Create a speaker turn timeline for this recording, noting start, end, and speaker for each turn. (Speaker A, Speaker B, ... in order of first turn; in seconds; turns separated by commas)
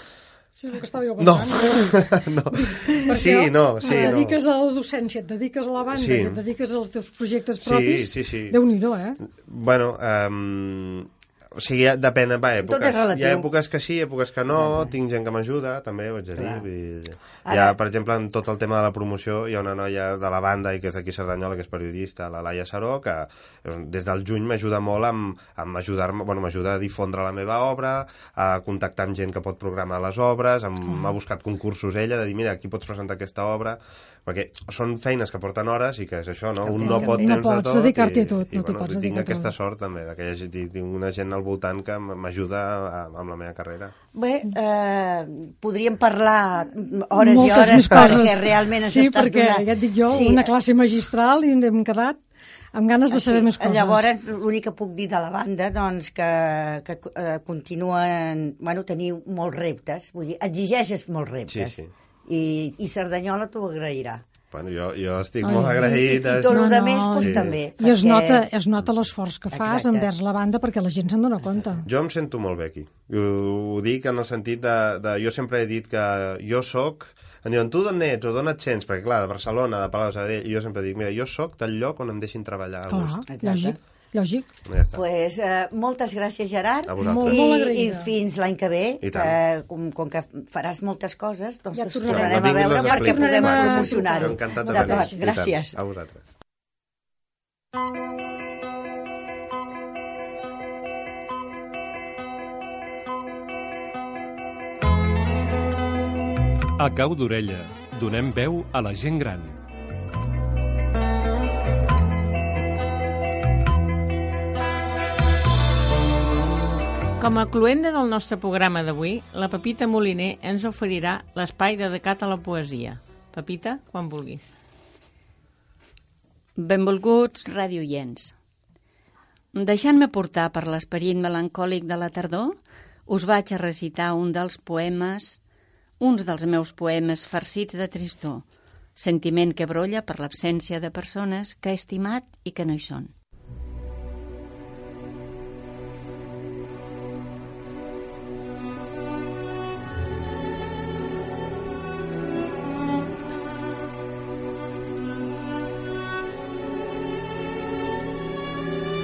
Speaker A: 0.6-9.2, Speaker B: 1.2-4.4, Speaker B: 5.9-6.4, Speaker B: 7.6-8.6, Speaker B: 9.4-43.9, Speaker C: 12.6-13.5, Speaker C: 14.5-14.9, Speaker C: 16.4-16.6, Speaker C: 17.4-17.8, Speaker A: 30.9-31.1, Speaker C: 36.6-37.5, Speaker A: 36.8-39.5, Speaker C: 44.1-50.5, Speaker A: 47.1-52.2, Speaker B: 47.9-48.2, Speaker A: 52.7-54.1, Speaker C: 53.1-64.2, Speaker B: 61.5-61.9, Speaker B: 64.5-66.6, Speaker A: 65.4-71.9, Speaker C: 66.2-68.5, Speaker B: 67.2-67.5, Speaker C: 69.5-70.1, Speaker B: 71.8-83.2, Speaker A: 82.9-84.5, Speaker C: 83.3-83.8, Speaker B: 84.7-85.0, Speaker C: 84.9-95.7, Speaker B: 86.9-87.4, Speaker A: 87.0-88.1, Speaker B: 89.0-89.3, Speaker A: 91.7-95.3, Speaker B: 92.1-96.2, Speaker D: 106.8-109.6, Speaker E: 117.2-124.5, Speaker F: 126.5-128.3, Speaker F: 129.5-135.4, Speaker F: 136.0-138.4, Speaker F: 138.9-143.1